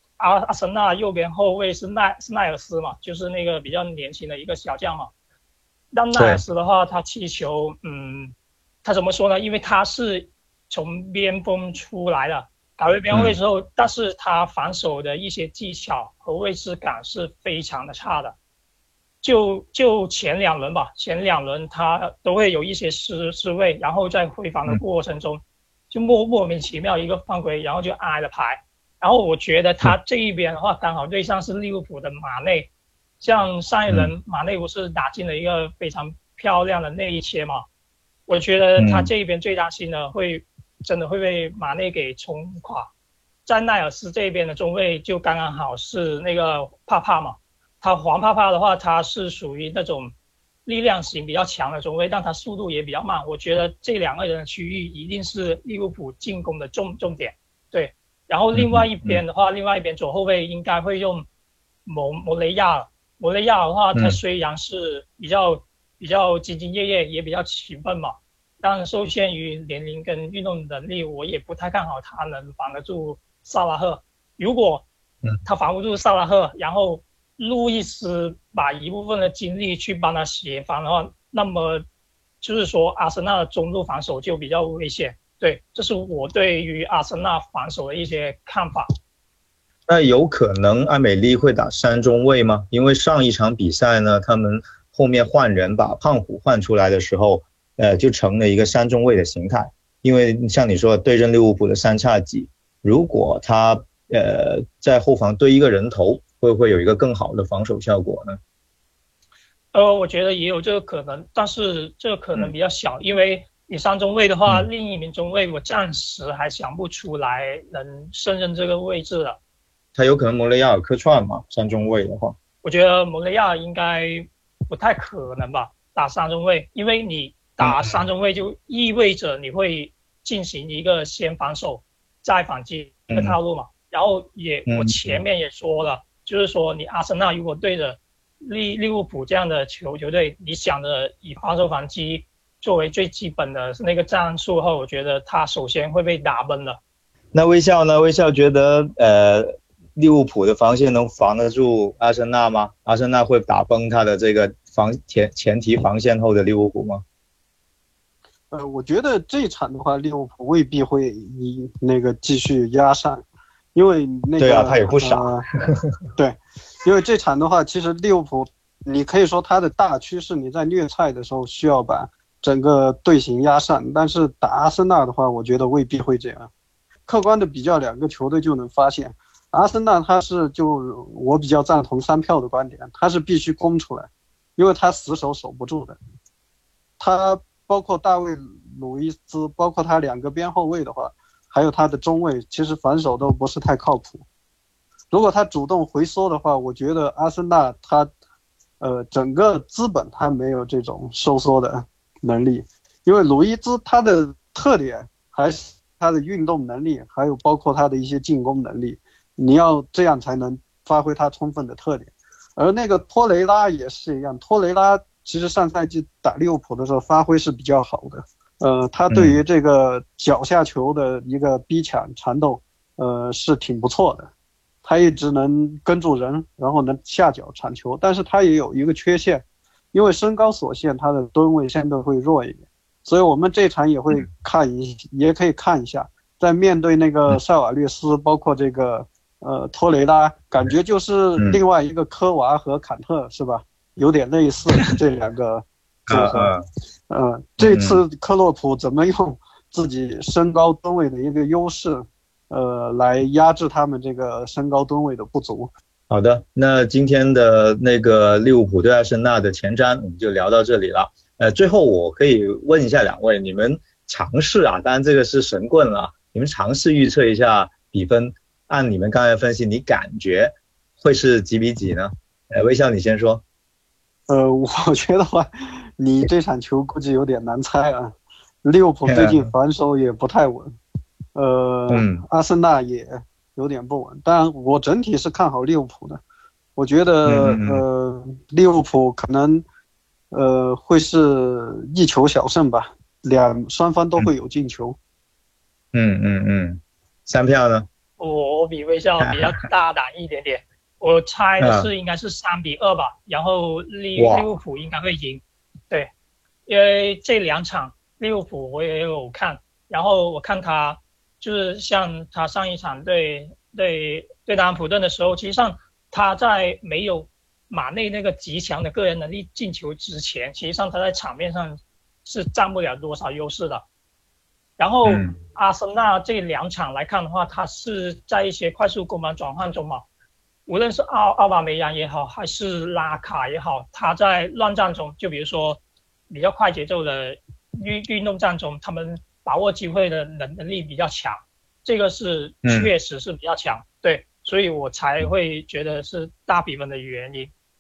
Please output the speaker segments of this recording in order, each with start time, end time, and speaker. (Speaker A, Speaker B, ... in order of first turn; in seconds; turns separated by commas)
Speaker A: 0.2-5.1, Speaker A: 5.9-18.4, Speaker B: 6.2-6.4, Speaker B: 13.1-13.4, Speaker A: 19.2-37.6, Speaker B: 33.9-34.1, Speaker A: 38.3-42.9, Speaker B: 38.8-39.1, Speaker A: 43.5-50.1, Speaker A: 50.6-61.3, Speaker B: 58.5-59.2, Speaker A: 61.9-74.9, Speaker A: 75.5-81.8, Speaker A: 82.4-88.9, Speaker B: 89.9-108.4, Speaker A: 109.7-119.4, Speaker B: 120.0-122.4, Speaker A: 122.6-146.8, Speaker B: 127.6-128.1, Speaker B: 133.1-133.4, Speaker B: 134.7-135.2, Speaker B: 147.3-157.0, Speaker C: 158.5-163.2, Speaker C: 163.8-165.5, Speaker B: 164.4-165.8, Speaker C: 166.2-176.5, Speaker C: 177.1-186.0, Speaker C: 187.0-194.2, Speaker C: 195.1-198.1, Speaker C: 198.8-224.3, Speaker B: 219.1-219.4, Speaker C: 224.8-246.5, Speaker B: 246.1-246.7, Speaker C: 247.1-255.7, Speaker B: 247.6-248.0, Speaker B: 256.1-273.4, Speaker C: 274.3-280.8, Speaker B: 279.1-279.5, Speaker C: 281.4-286.2, Speaker B: 281.9-282.2, Speaker C: 286.8-289.6, Speaker B: 287.2-287.8, Speaker C: 290.3-295.0, Speaker B: 295.9-297.9, Speaker A: 298.2-306.1, Speaker B: 299.2-299.5, Speaker B: 301.6-301.9, Speaker B: 304.2-304.5, Speaker A: 306.7-323.8, Speaker A: 324.8-330.1, Speaker B: 325.0-325.4, Speaker A: 330.7-347.5, Speaker B: 342.6-342.9